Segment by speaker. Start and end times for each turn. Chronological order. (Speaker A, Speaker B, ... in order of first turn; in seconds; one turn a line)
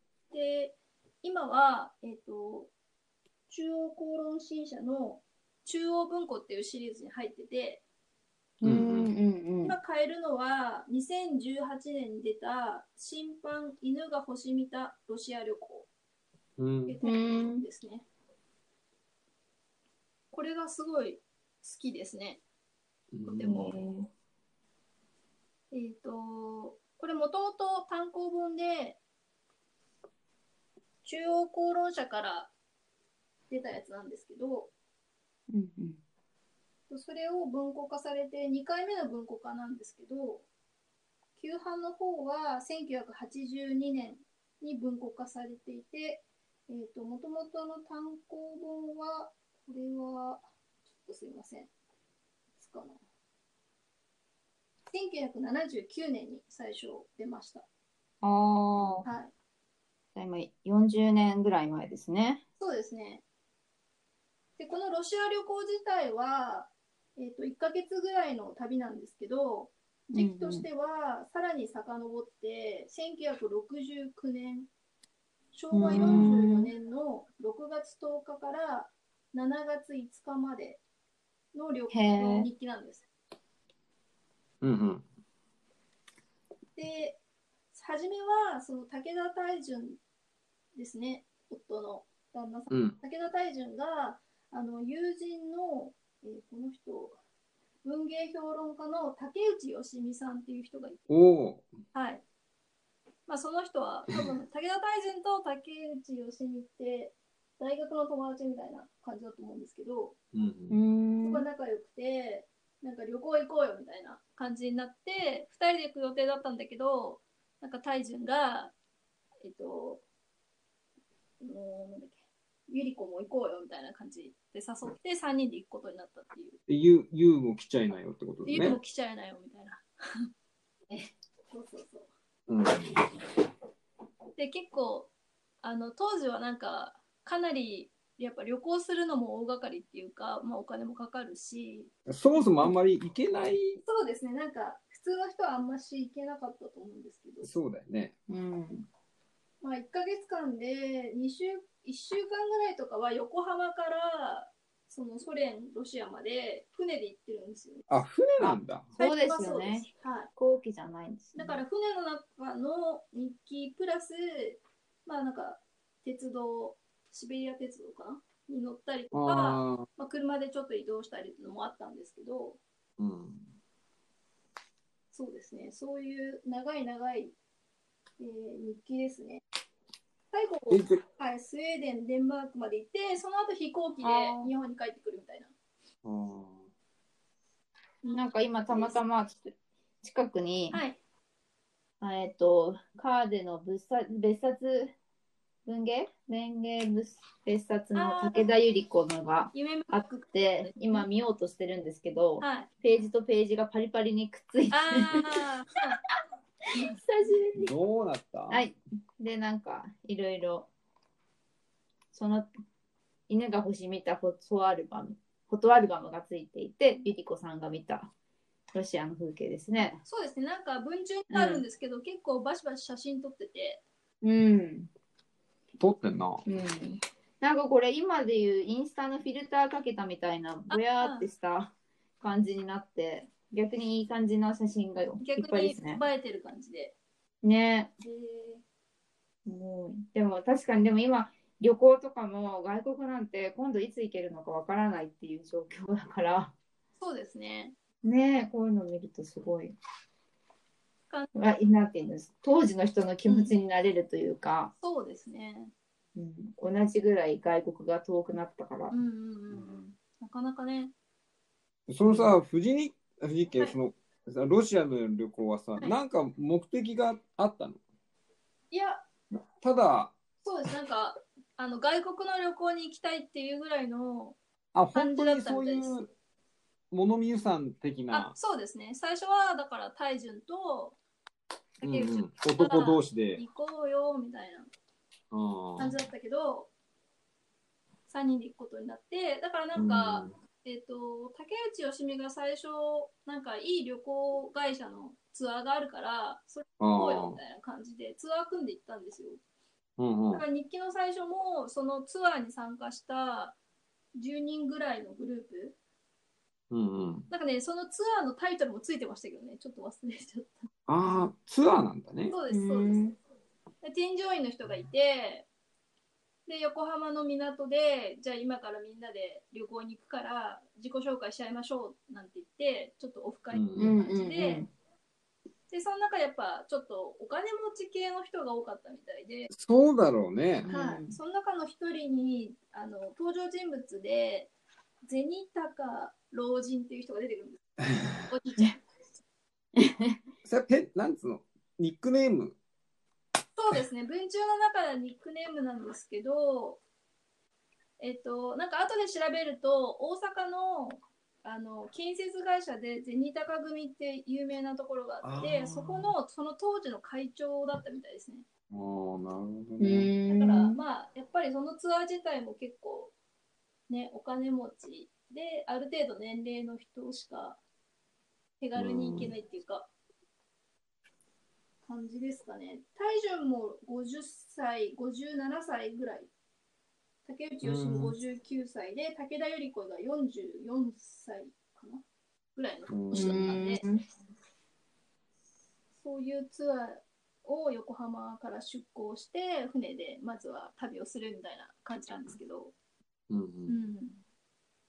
Speaker A: 0.3-2.7
Speaker A: 3.5-7.8
Speaker B: 8.6-9.8
Speaker C: 8.6-9.1
Speaker A: 9.6-15.9
Speaker C: 16.6-17.0
Speaker A: 16.9-18.1
Speaker B: 17.0-17.6
Speaker A: 20.3-22.4
Speaker C: 23.1-23.7
Speaker A: 23.3-23.8
Speaker B: 23.5-24.1
Speaker A: 25.7-29.0
Speaker A: 31.0-32.5
Speaker A: 33.5-34.7
Speaker B: 35.5-36.0
Speaker A: 36.9-40.5
Speaker A: 41.4-50.4
Speaker A: 51.0-51.7
Speaker A: 52.6-53.0
Speaker A: 54.9-57.7
Speaker B: 58.2-59.1
Speaker C: 58.7-59.0
Speaker A: 59.0-59.3
Speaker B: 60.1-62.4
Speaker A: 62.6-63.2
Speaker A: 64.6-74.7
Speaker B: 70.1-70.7
Speaker A: 75.5-80.8
Speaker B: 75.7-76.7
Speaker A: 81.5-83.0
Speaker B: 81.9-82.5
Speaker C: 84.6-85.0
Speaker A: 86.8-87.2
Speaker A: 87.7-90.0
Speaker A: 90.8-97.2
Speaker C: 92.7-93.0
Speaker A: 97.8-101.0
Speaker C: 101.1-101.7
Speaker A: 101.9-102.2
Speaker A: 103.3-110.2
Speaker C: 110.3-110.8
Speaker B: 110.7-111.5
Speaker A: 111.2-118.7
Speaker A: 119.4-120.0
Speaker A: 121.4-122.2
Speaker A: 122.7-126.6
Speaker C: 126.7-128.8
Speaker A: 128.5-130.3
Speaker A: 131.5-132.1
Speaker C: 132.5-133.1
Speaker A: 134.4-135.1
Speaker A: 135.6-141.9
Speaker C: 142.1-143.8
Speaker A: 143.8-147.5
Speaker C: 147.4-148.2
Speaker B: 148.3-148.9
Speaker A: 149.6-157.9
Speaker C: 157.9-158.9
Speaker B: 158.4-161.6
Speaker A: 159.0-160.3
Speaker A: 161.3-172.6
Speaker C: 169.1-169.9
Speaker C: 173.0-173.4
Speaker A: 175.1-177.3
Speaker A: 178.2-179.4
Speaker A: 180.3-185.5
Speaker C: 180.7-181.0
Speaker B: 184.0-184.5
Speaker C: 186.0-186.7
Speaker A: 188.0-189.0
Speaker B: 188.1-190.8
Speaker A: 190.7-191.0
Speaker B: 192.0-194.9
Speaker B: 195.7-205.4
Speaker A: 197.9-198.5
Speaker A: 199.5-201.1
Speaker A: 202.4-202.7
Speaker A: 204.7-206.0
Speaker A: 206.7-207.0
Speaker B: 206.8-207.7
Speaker C: 207.6-208.7
Speaker B: 208.5-210.7
Speaker B: 212.1-212.5
Speaker B: 213.3-218.1
Speaker B: 218.7-220.0
Speaker A: 220.0-223.8
Speaker B: 221.3-221.7
Speaker B: 224.2-224.9
Speaker C: 225.8-226.4
Speaker B: 226.4-236.0
Speaker A: 230.7-231.3
Speaker A: 235.2-236.9
Speaker B: 237.4-237.9
Speaker A: 238.0-238.6
Speaker B: 239.5-246.5
Speaker A: 247.0-247.7
Speaker B: 248.0-249.8
Speaker B: 251.3-254.7
Speaker A: 253.3-253.5
Speaker A: 254.8-255.7
Speaker B: 256.1-258.9
Speaker A: 258.9-260.9
Speaker C: 261.9-267.8
Speaker A: 268.7-269.0
Speaker C: 269.6-270.1
Speaker A: 270.4-274.4
Speaker C: 274.8-276.1
Speaker A: 274.9-276.1
Speaker C: 276.9-278.3
Speaker A: 278.1-281.0
Speaker A: 281.8-284.7
Speaker C: 281.8-283.4
Speaker C: 285.3-286.0
Speaker A: 285.8-286.7
Speaker A: 288.1-299.4
Speaker C: 289.8-290.3
Speaker C: 296.8-297.4
Speaker C: 300.0-300.4
Speaker A: 300.3-303.6
Speaker A: 304.1-305.8
Speaker C: 306.7-307.3
Speaker A: 307.3-310.7
Speaker C: 310.9-312.4
Speaker A: 312.3-313.0
Speaker B: 312.5-313.2
Speaker A: 313.8-315.5
Speaker A: 316.5-324.7
Speaker C: 323.5-323.9
Speaker B: 323.8-324.7
Speaker A: 325.7-329.5
Speaker C: 329.5-330.7
Speaker B: 330.6-331.2
Speaker A: 330.7-334.5
Speaker A: 335.1-337.7
Speaker A: 338.2-338.8
Speaker B: 339.8-340.2
Speaker C: 340.4-342.6
Speaker A: 343.6-346.8
Speaker A: 348.0-358.4
Speaker C: 355.2-356.1
Speaker C: 358.7-360.1
Speaker B: 359.8-360.8
Speaker A: 360.3-363.1
Speaker A: 363.9-367.6
Speaker A: 368.6-369.9
Speaker C: 368.8-369.3
Speaker A: 371.9-376.3
Speaker A: 377.2-382.0
Speaker C: 377.6-378.1
Speaker A: 382.6-383.8
Speaker C: 382.9-383.6
Speaker B: 383.1-384.0
Speaker A: 386.0-392.7
Speaker C: 393.3-393.8
Speaker A: 393.7-394.2